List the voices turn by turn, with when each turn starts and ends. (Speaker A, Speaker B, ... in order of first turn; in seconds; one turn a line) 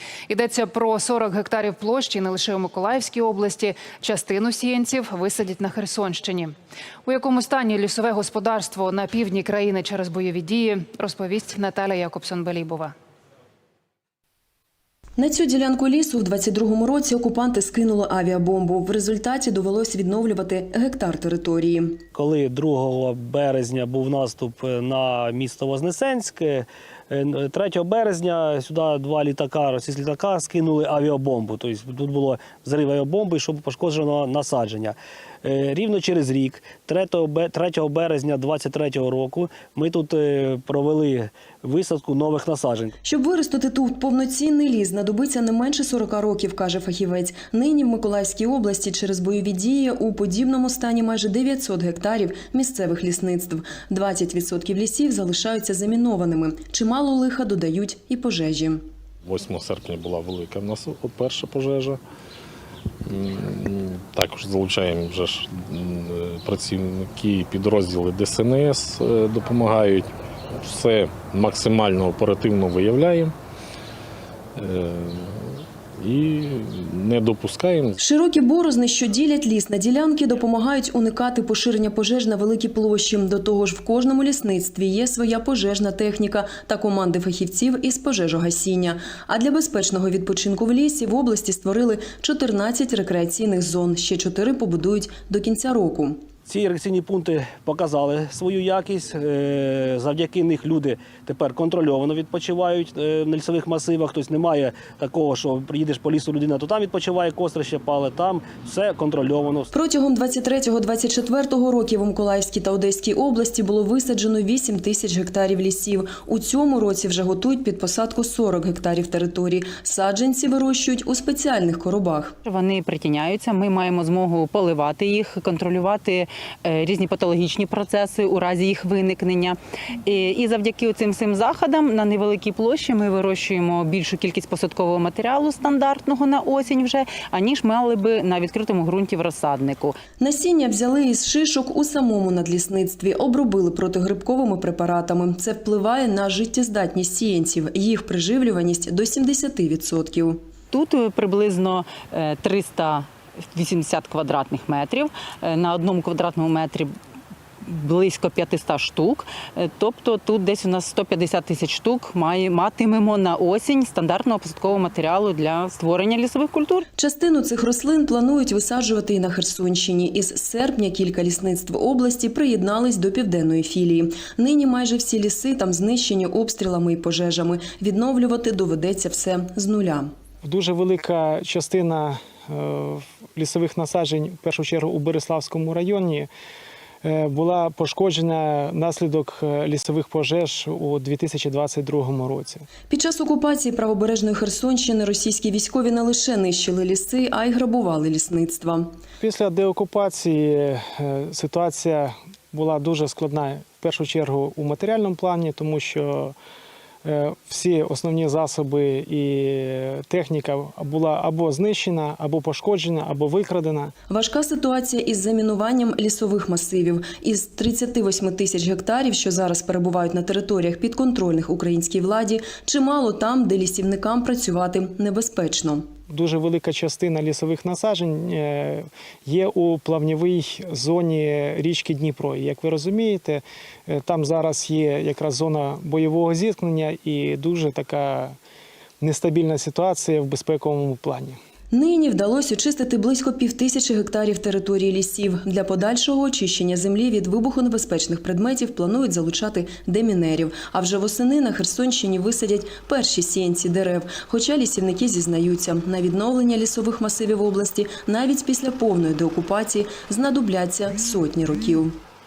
Speaker A: 0.3-6.5
Speaker A: 7.0-12.9
Speaker B: 15.2-22.0
Speaker C: 22.1-42.9
Speaker B: 43.0-58.8
Speaker D: 59.3-62.0
Speaker D: 63.1-73.3
Speaker D: 74.6-77.9
Speaker B: 78.0-96.2
Speaker C: 96.5-109.7
Speaker B: 109.7-122.3
Speaker E: 122.4-140.0
Speaker B: 140.2-150.4
Speaker E: 150.7-156.9
Speaker E: 157.6-166.8
Speaker B: 167.0-180.1
Speaker F: 180.4-186.3
Speaker F: 187.0-192.7
Speaker B: 192.9-198.9
Speaker F: 199.2-206.3
Speaker F: 207.0-213.9
Speaker B: 214.1-225.8
Speaker F: 226.1-238.3
Speaker F: 239.0-241.4
Speaker B: 241.7-261.9